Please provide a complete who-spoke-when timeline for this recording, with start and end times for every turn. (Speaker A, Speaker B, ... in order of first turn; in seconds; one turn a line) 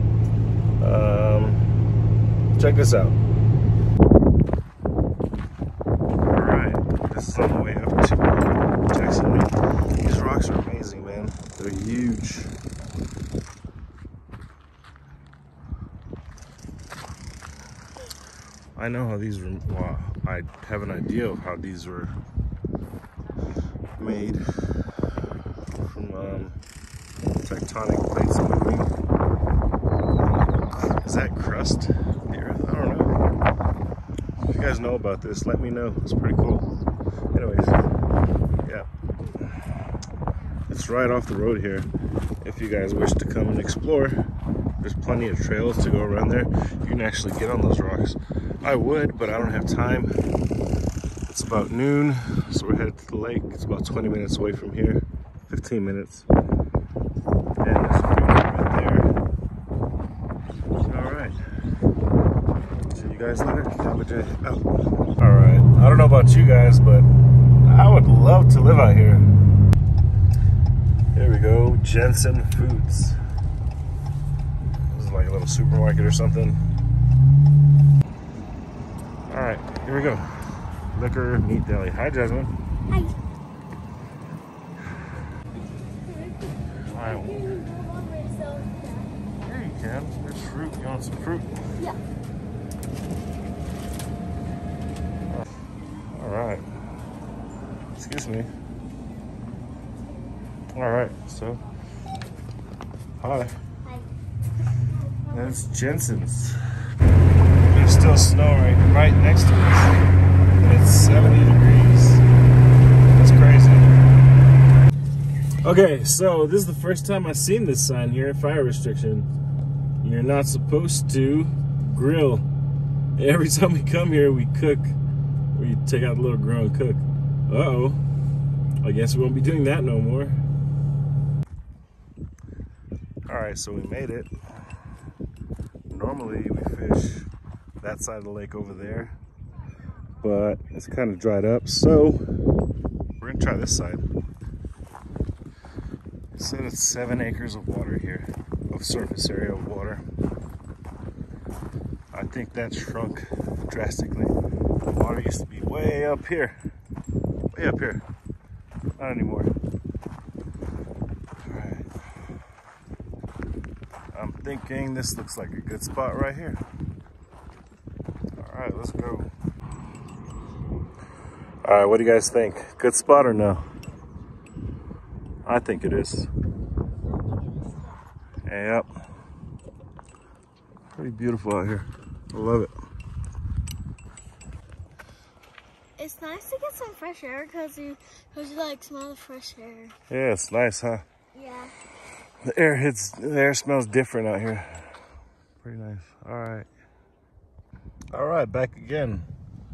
Speaker A: 0.8-1.6
Speaker A: 2.5-3.2
Speaker A: 6.3-9.5
Speaker A: 10.0-12.5
Speaker A: 18.8-22.1
Speaker A: 24.0-24.9
Speaker A: 25.8-26.6
Speaker A: 27.4-28.9
Speaker A: 30.8-33.2
Speaker A: 34.4-36.7
Speaker A: 37.3-37.8
Speaker A: 40.7-41.9
Speaker A: 42.4-44.2
Speaker A: 44.8-50.1
Speaker A: 51.3-56.3
Speaker A: 57.6-59.1
Speaker A: 60.8-61.4
Speaker A: 62.9-64.7
Speaker A: 65.2-67.1
Speaker A: 67.6-69.3
Speaker A: 71.1-73.2
Speaker A: 74.9-76.6
Speaker A: 79.3-80.3
Speaker A: 80.9-82.5
Speaker B: 82.9-83.2
Speaker B: 86.0-89.1
Speaker A: 86.8-87.5
Speaker A: 89.4-91.5
Speaker A: 96.1-96.6
Speaker A: 98.0-98.5
Speaker A: 100.7-101.6
Speaker A: 103.2-103.5
Speaker A: 105.3-106.6
Speaker A: 107.6-110.0
Speaker A: 110.6-112.2
Speaker A: 113.1-114.0
Speaker A: 115.6-119.3
Speaker A: 120.0-122.5
Speaker A: 123.2-125.0
Speaker A: 125.5-128.0
Speaker A: 128.8-130.4
Speaker A: 133.3-134.3
Speaker A: 135.9-137.3
Speaker A: 137.8-139.2
Speaker A: 140.2-142.2
Speaker A: 143.2-144.0
Speaker A: 146.3-150.0
Speaker A: 152.1-156.6
Speaker A: 157.5-158.0
Speaker A: 159.0-159.5
Speaker A: 161.4-161.9
Speaker A: 164.1-166.6
Speaker A: 168.4-169.3
Speaker A: 171.6-173.6
Speaker A: 175.4-176.3
Speaker B: 177.2-178.0
Speaker A: 178.4-178.8
Speaker A: 180.9-182.7
Speaker B: 186.0-189.9
Speaker A: 190.1-191.0
Speaker B: 191.3-191.7
Speaker A: 192.4-195.0
Speaker A: 195.6-196.7
Speaker A: 198.1-199.3